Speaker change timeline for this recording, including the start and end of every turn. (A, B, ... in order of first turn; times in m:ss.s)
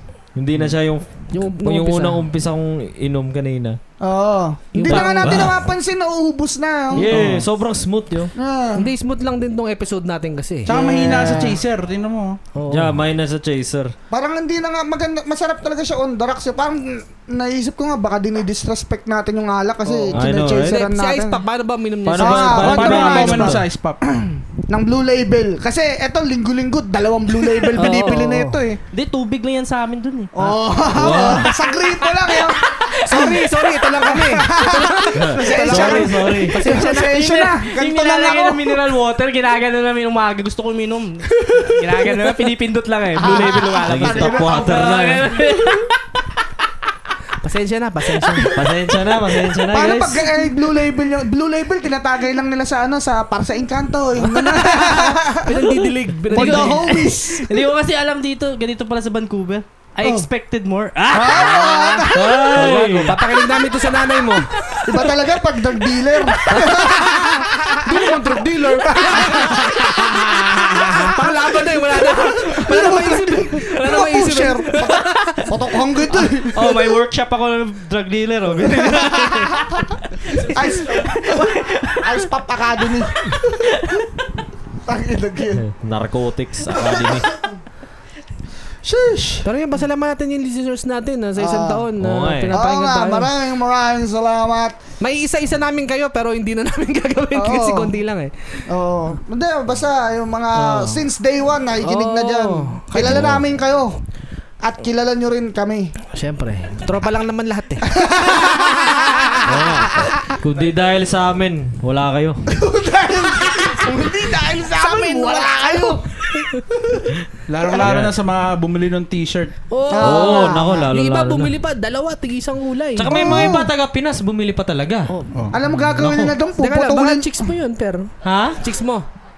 0:00.4-0:03.8 A
0:01.3-0:02.2 B
0:04.0-0:07.1 C
0:04.7-0:05.5 B
0:04.9-0:05.6 A
0:06.9-0:08.3 A
0:07.0-0:07.4 B
0:08.4-0:08.9 C
0:08.8-0:10.8 B
0:10.7-0:12.4 D
0:10.7-0:11.6 C
0:10.9-0:11.5 A
0:12.6-0:13.0 B
0:12.7-0:14.0 A
0:14.1-0:21.4 C
0:19.8-0:23.5 B
0:20.1-0:20.9 A
0:22.0-0:23.6 A
0:22.2-0:23.6 C
0:22.6-0:24.0 D
0:24.1-0:28.8 C
0:27.7-0:28.6 B
0:28.9-0:30.3 E
0:30.4-0:38.9 C
0:30.4-0:31.4 B
0:30.9-0:31.5 A
0:32.1-0:33.3 E
0:33.0-0:37.1 B
0:35.2-0:36.6 A
0:36.6-0:45.9 E
0:43.2-0:45.0 C
0:43.8-0:45.4 A
0:47.4-0:48.6 B
0:48.3-0:48.6 C
0:48.5-0:50.3 A
0:49.6-0:55.8 C
0:54.2-0:56.9 B
0:56.3-1:02.0 E
0:56.3-0:57.7 C
1:01.1-1:03.4 C
1:01.2-1:05.1 B
1:02.1-1:03.2 A
1:04.8-1:11.3 C
1:06.4-1:15.8 B
1:11.9-1:17.0 C
1:16.5-1:22.2 E
1:18.6-1:19.7 C
1:20.3-1:23.8 C
1:23.6-1:24.1 E
1:24.9-1:25.6 C
1:25.5-1:27.3 A
1:28.8-1:29.5 C
1:29.4-1:33.3 B
1:31.4-1:31.9 C
1:32.0-1:32.6 A
1:32.5-1:34.8 C
1:35.0-1:38.3 B
1:37.4-1:37.9 C
1:38.7-1:44.0 C
1:40.6-1:41.0 B
1:41.8-1:43.4 B
1:43.0-1:43.4 A
1:44.6-1:45.9 C
1:46.1-1:49.5 B
1:47.9-1:50.3 C
1:49.4-1:52.4 A
1:52.5-1:58.0 C
1:54.8-1:56.7 B
1:57.5-1:59.6 D
1:57.8-1:58.1 A
1:59.7-2:03.5 B
1:59.9-2:00.9 C
2:00.0-2:01.5 A
2:03.0-2:05.1 A
2:03.1-2:03.7 C
2:05.3-2:05.6 D
2:05.5-2:07.5 C
2:05.7-2:06.4 A
2:06.6-2:09.1 B
2:08.2-2:08.6 A